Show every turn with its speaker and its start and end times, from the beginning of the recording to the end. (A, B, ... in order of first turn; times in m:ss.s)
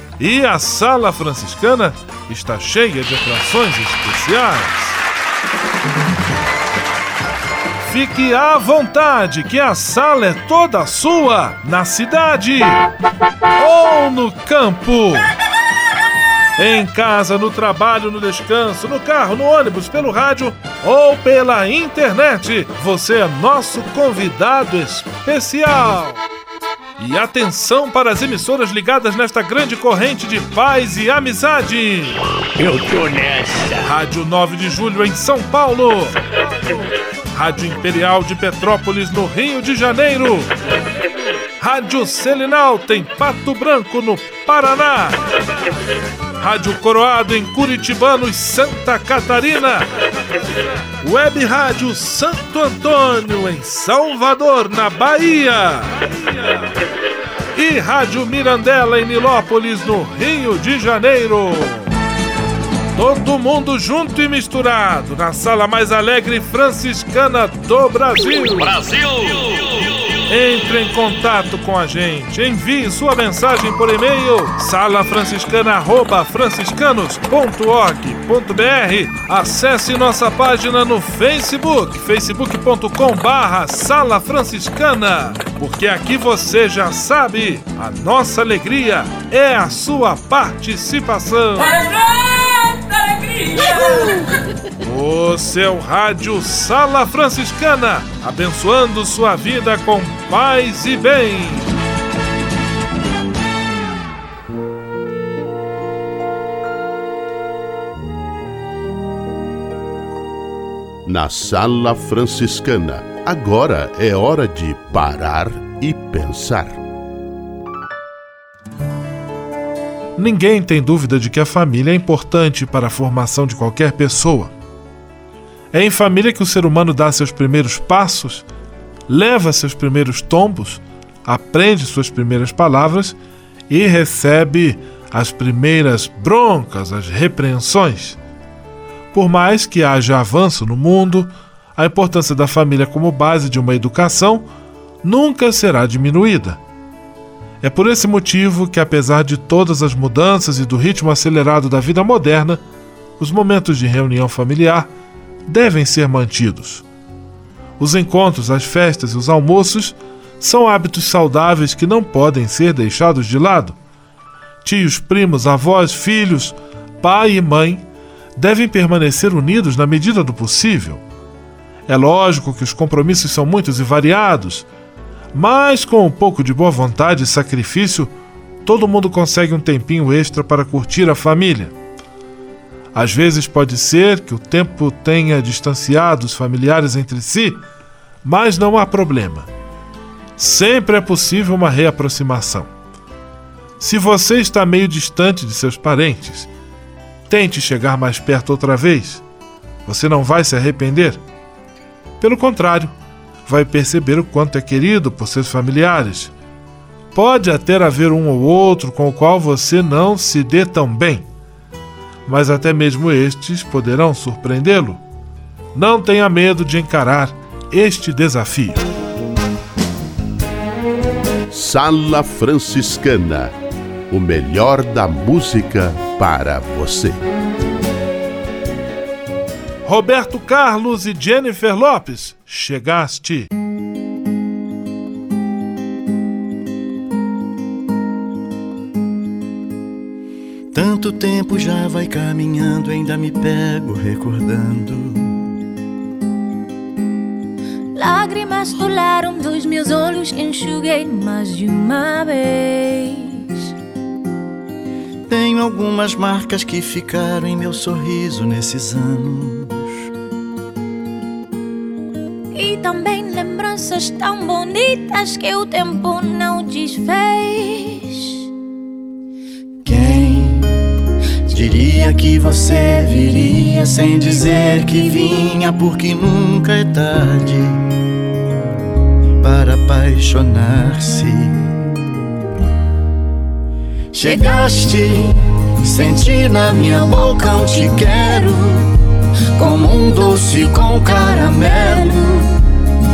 0:00.2-0:05.0 A
0:07.8-0:12.8 A
0:13.6-0:15.3 A
0:16.6-0:26.2 A
0:27.0-0:32.2 A
0:32.6-0:33.9 B
0:33.8-0:36.2 A
0:37.3-0:40.5 A
0:41.6-0:45.2 A
0:46.4-0:49.9 A
0:51.0-0:56.6 A
0:57.5-1:01.9 A
1:03.0-1:08.8 A
1:08.6-1:09.4 B
1:10.3-1:31.9 A
1:34.8-1:41.7 A
1:51.0-1:56.8 C
2:00.2-2:04.5 A
2:05.7-2:08.4 A
2:09.1-2:13.2 A
2:13.7-2:18.2 A
2:19.1-2:24.5 A
2:25.0-2:26.6 A
2:27.6-2:32.6 A
2:33.2-2:34.9 A
2:35.5-2:36.8 A
2:37.8-2:43.8 A
2:44.6-2:47.8 A
2:48.4-2:51.0 A
2:51.9-2:54.6 A
2:55.3-2:58.1 A
2:58.6-3:01.7 A
3:02.9-3:07.6 A
3:08.2-3:09.5 A
3:10.4-3:12.7 A
3:13.8-3:16.5 A
3:17.3-3:19.2 A
3:19.8-3:21.2 A
3:22.2-3:22.9 A
3:23.5-3:26.3 A
3:27.1-3:31.2 A
3:32.3-3:35.0 A
3:35.7-3:38.8 A
3:41.5-3:43.5 C
3:44.1-3:47.2 C
3:49.8-3:53.5 A
4:00.7-4:05.4 D
4:07.9-4:13.6 E
4:15.3-4:19.9 D
4:22.5-4:28.4 E
4:29.8-4:30.7 D
4:31.5-4:37.8 D
4:39.4-4:41.7 D
4:44.1-4:48.8 D
4:44.3-4:44.9 E
4:47.2-4:48.0 E
4:49.6-4:52.3 D
4:51.7-4:52.2 E